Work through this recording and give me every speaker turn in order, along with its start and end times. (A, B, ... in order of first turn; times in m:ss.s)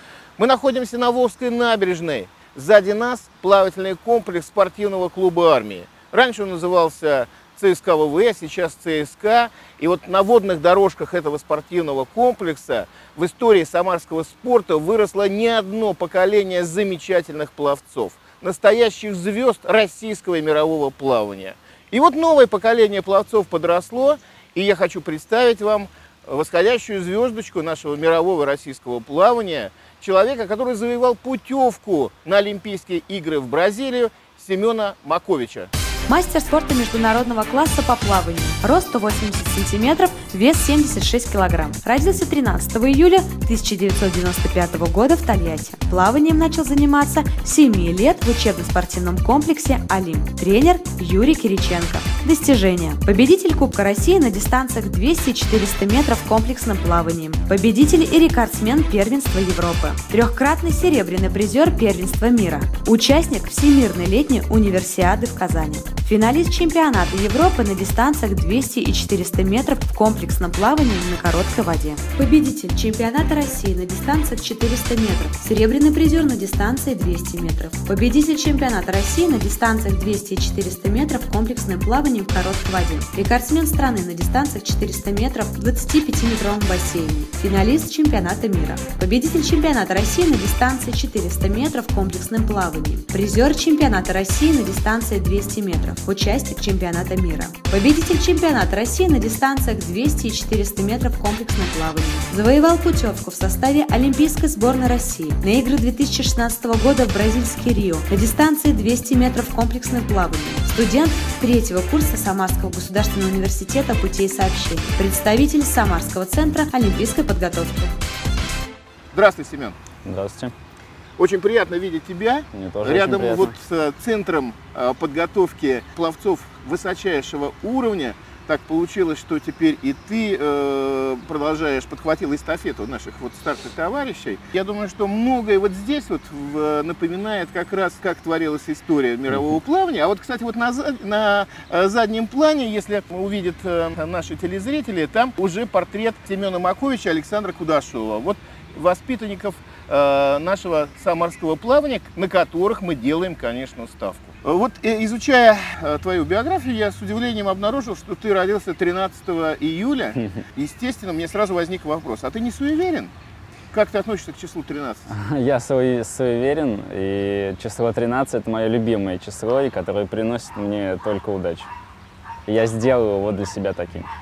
0:00.4-0:35.7 A
0:36.1-1:57.9 B
1:59.1-1:59.8 A
2:00.0-2:00.5 C
2:01.2-2:43.1 A
2:02.5-2:03.6 C
2:43.7-2:45.1 A
2:45.1-2:51.7 C
2:52.5-2:54.1 C